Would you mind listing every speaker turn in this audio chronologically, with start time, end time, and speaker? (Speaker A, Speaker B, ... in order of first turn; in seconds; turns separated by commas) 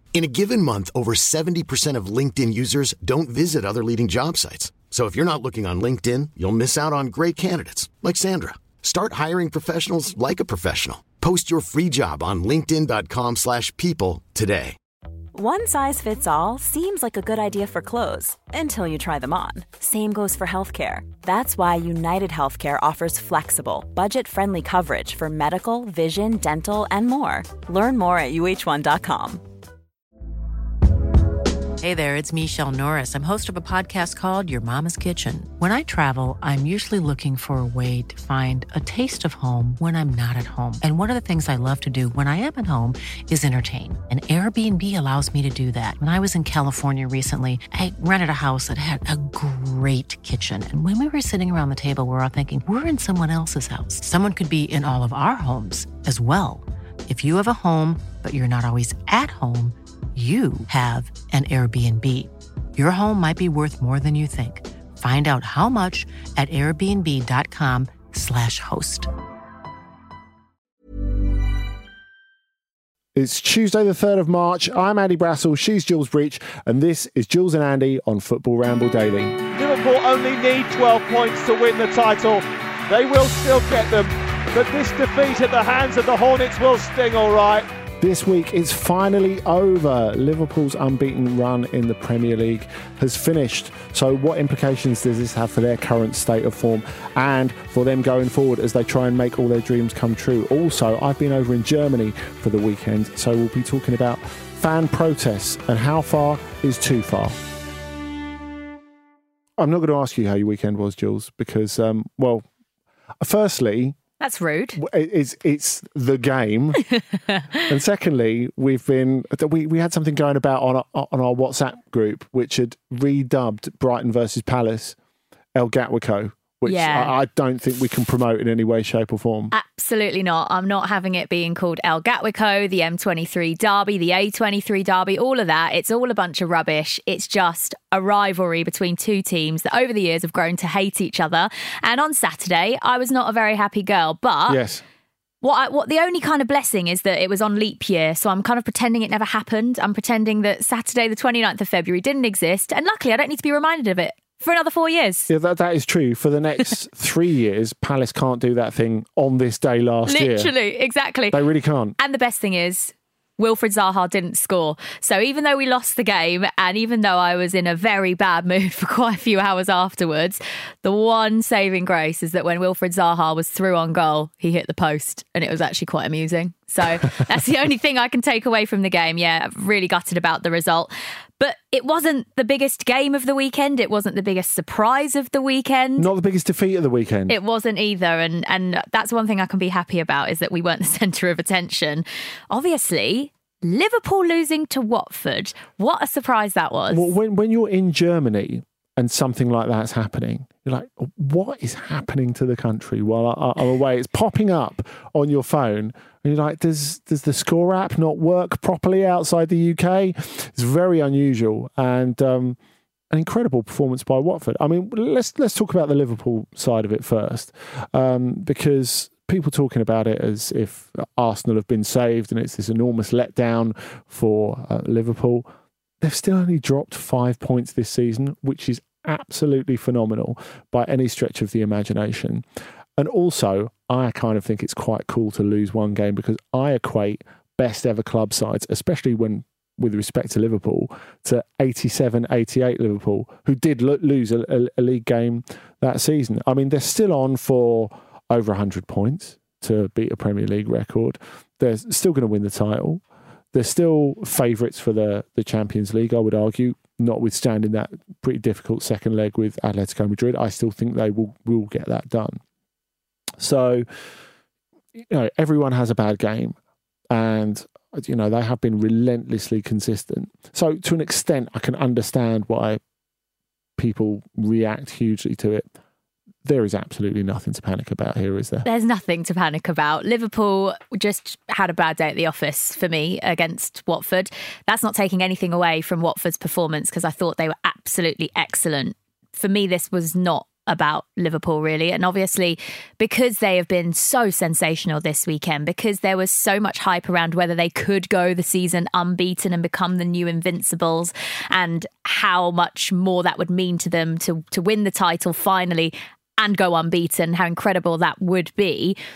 Speaker A: 0.1-14.8, Speaker B: 15.3-29.4, Speaker C: 31.8-69.1, Speaker D: 73.1-79.4, Speaker E: 79.5-87.7, Speaker D: 88.0-107.4, Speaker D: 109.6-112.5, Speaker D: 113.2-114.0, Speaker F: 114.2-114.8, Speaker D: 114.8-116.8, Speaker F: 116.9-117.6, Speaker D: 117.7-125.0, Speaker D: 125.5-129.5, Speaker F: 126.7-127.1, Speaker F: 129.5-144.6, Speaker D: 144.5-144.8, Speaker F: 145.4-155.3, Speaker D: 155.3-160.5, Speaker F: 160.1-161.4, Speaker D: 161.3-161.9, Speaker F: 162.0-186.1, Speaker D: 186.0-187.3, Speaker F: 187.3-197.1, Speaker D: 196.9-212.6, Speaker D: 213.1-225.5, Speaker D: 226.0-232.4, Speaker D: 233.0-262.4, Speaker D: 263.4-263.9, Speaker D: 265.1-266.6, Speaker D: 267.1-272.8, Speaker D: 273.8-275.7, Speaker D: 276.4-278.6, Speaker F: 278.6-308.9